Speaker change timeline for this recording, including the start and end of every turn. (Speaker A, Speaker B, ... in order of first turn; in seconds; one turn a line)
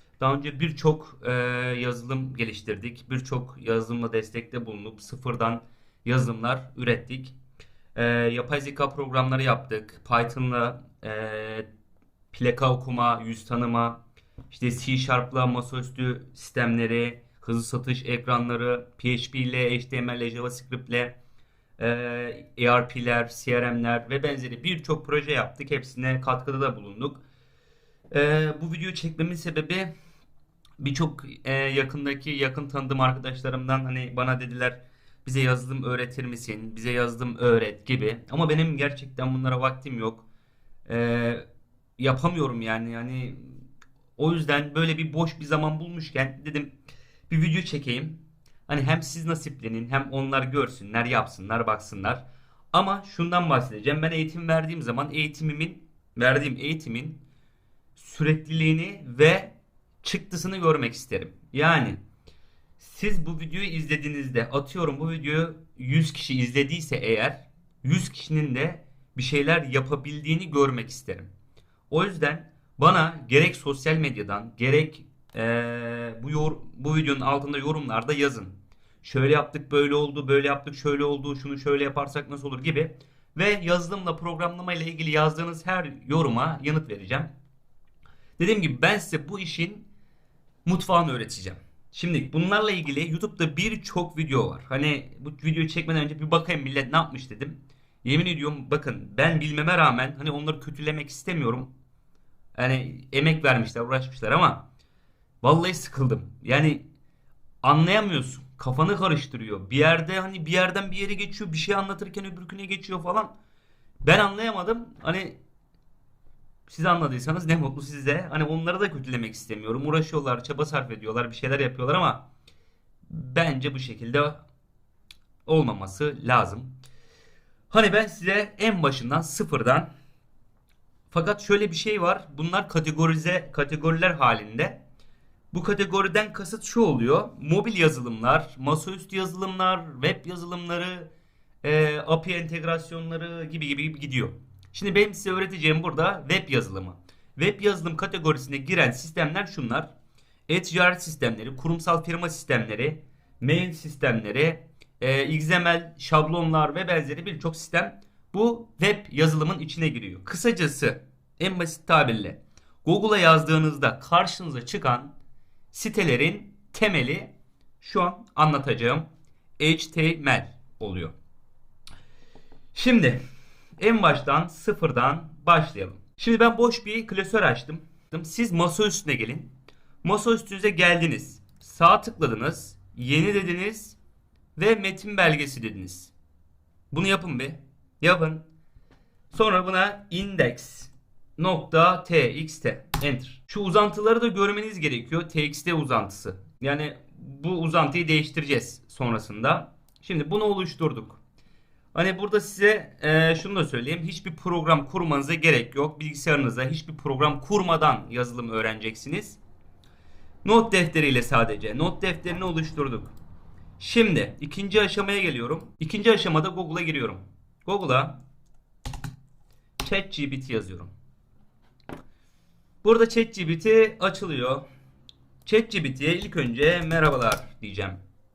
Speaker A: 0.2-7.3
Speaker A: 7.9-11.7
Speaker A: 12.3-21.1
Speaker A: 21.8-27.2
Speaker A: 28.1-29.9
Speaker A: 30.8-40.3
Speaker A: 40.9-41.5
Speaker A: 42.0-43.6
Speaker A: 44.2-46.8
Speaker A: 47.3-57.2
Speaker A: 57.9-62.0
Speaker A: 62.8-71.3
Speaker A: 71.9-87.3
Speaker A: 88.4-89.9
Speaker A: 90.6-101.7
Speaker A: 102.5-104.7
Speaker A: 105.4-106.9
Speaker A: 107.6-113.3
Speaker A: 114.0-115.4
Speaker A: 116.7-122.3
Speaker A: 123.1-124.4
Speaker A: 125.5-126.8
Speaker A: 127.7-129.9
Speaker A: 131.1-134.8
Speaker A: 135.5-141.1
Speaker A: 141.6-149.9
Speaker A: 150.5-165.1
Speaker A: 165.7-171.1
Speaker A: 172.7-173.2
Speaker A: 173.8-184.0
Speaker A: 184.6-186.1
Speaker A: 186.9-188.4
Speaker A: 189.3-201.2
Speaker A: 201.9-209.4
Speaker A: 210.4-213.1
Speaker A: 213.8-218.2
Speaker A: 219.8-220.9
Speaker A: 222.8-224.7
Speaker A: 225.4-228.0